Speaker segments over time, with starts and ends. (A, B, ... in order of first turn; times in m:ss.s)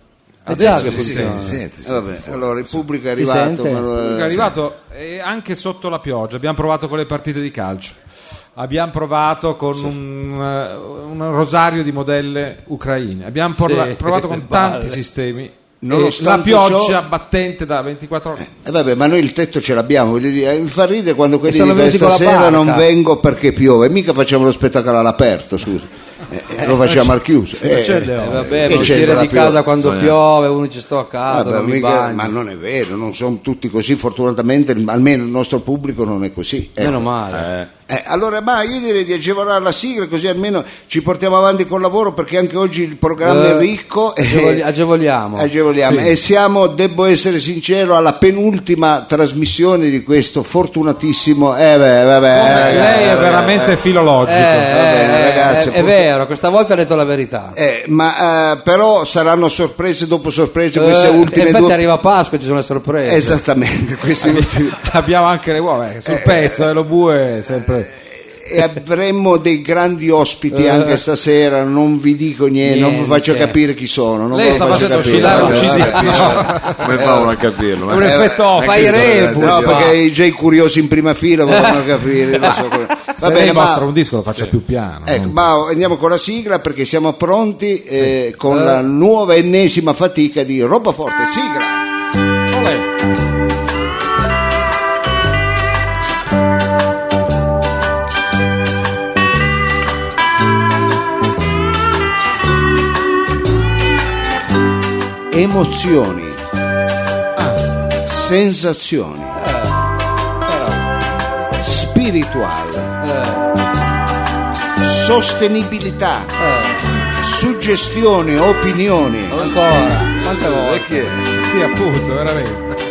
0:00.5-0:01.6 A
0:00.5-0:02.6 B
0:00.5-0:04.5 C
0:01.0-0:01.3 D
0:03.2-0:03.9 A
0:04.0-0:07.9 D
0:08.6-0:18.5 D
0:13.5-0:15.0 A
0:15.8-0:17.0 C
0:18.4-0:29.6 C
0:21.5-0:22.8 A
0:27.6-0:28.9 D
0:28.2-0:32.3 A
0:29.7-0:30.2 B
0:31.3-0:37.1 C
0:36.8-0:37.5 A
0:37.3-0:37.7 B
0:37.9-0:44.6 C
0:43.2-0:43.7 A
0:44.2-0:46.1 A
0:45.3-0:53.8 C
0:52.3-0:54.7 D
0:52.5-0:53.2 A
0:54.2-0:57.5 A
0:54.7-0:56.0 C
0:57.5-1:01.8 C
1:00.7-1:03.4 A
1:03.0-1:04.8 C
1:04.2-1:07.9 D
1:06.0-1:06.5 C
1:07.9-1:16.4 C
1:10.5-1:11.0 A
1:12.6-1:13.6 A
1:14.3-1:16.9 D
1:14.8-1:19.9 B
1:15.4-1:16.3 A
1:17.9-1:19.0 D
1:18.0-1:23.9 C
1:18.6-1:19.9 A
1:21.5-1:21.8 A
1:23.2-1:25.4 D
1:25.0-1:31.8 C
1:28.5-1:28.8 A
1:32.5-1:32.8 D
1:45.3-1:46.4 C
1:48.0-1:49.4 C
1:49.4-1:49.8 A
1:51.6-1:52.9 C
1:53.0-1:53.5 A
1:54.8-1:56.3 C
1:56.4-1:56.9 A
1:57.2-1:59.4 C
1:59.3-2:01.1 A
1:59.3-2:01.4 B
2:01.4-2:02.6 D